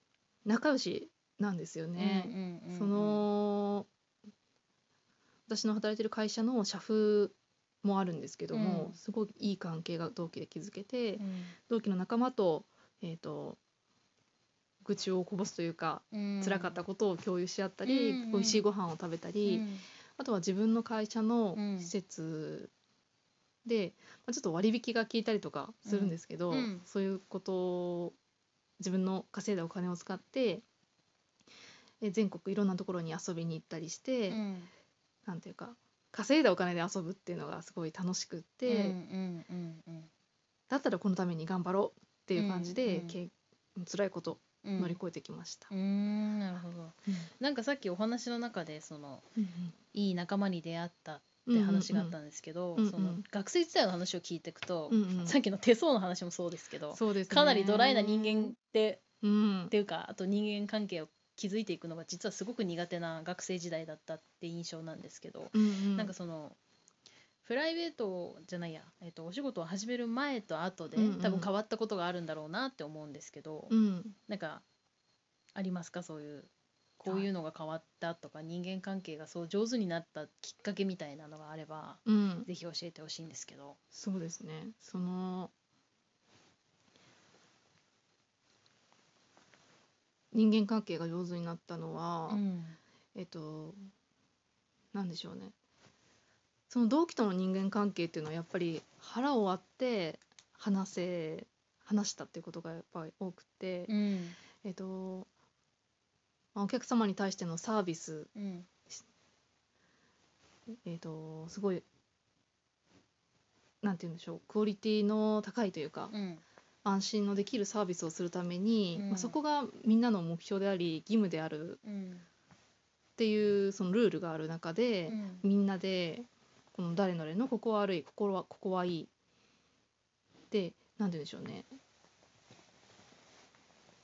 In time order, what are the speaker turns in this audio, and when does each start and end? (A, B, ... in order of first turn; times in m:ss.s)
0:00.4-0:03.9 A
0:02.0-0:03.3 B
0:05.5-0:13.6 A
0:08.5-0:09.0 B
0:11.2-0:11.5 B
0:14.8-0:22.7 A
0:16.1-0:16.8 B
0:17.8-0:18.6 B
0:19.4-0:19.8 B
0:21.5-0:21.9 B
0:23.6-0:28.2 A
0:25.8-0:26.8 B
0:28.8-0:30.6 A
0:32.0-0:34.4 A
0:34.3-0:34.7 B
0:35.2-0:39.0 A
0:38.6-0:40.1 B
0:40.7-0:45.7 A
0:42.3-0:43.2 B
0:44.6-0:45.0 B
0:45.7-0:49.3 B
0:49.4-0:49.7 A
0:49.9-0:59.0 B
0:51.5-0:52.2 A
0:52.8-0:53.2 A
0:54.9-0:55.4 A
0:56.9-0:58.5 A
0:59.2-0:59.7 A
0:59.7-1:06.6 B
1:05.5-1:06.1 A
1:07.4-1:13.7 B
1:10.9-1:11.5 A
1:13.7-1:14.2 A
1:14.3-1:14.6 B
1:15.5-1:23.8 B
1:22.0-1:22.5 A
1:23.9-1:25.5 A
1:30.3-1:32.4 A
1:32.3-1:32.8 B
1:33.1-1:33.8 A
1:34.9-1:35.5 A
1:36.7-1:43.9 A
1:43.9-1:44.4 B
1:44.6-1:45.3 A
1:46.5-1:48.3 A
1:48.3-1:48.7 B
1:50.7-1:51.8 A
1:53.8-1:56.1 A
1:56.1-1:56.4 B
1:56.8-2:01.8 A
1:58.9-1:59.4 B
2:01.8-2:02.2 B
2:03.2-2:09.1 A
2:05.1-2:05.4 B
2:10.5-2:11.7 A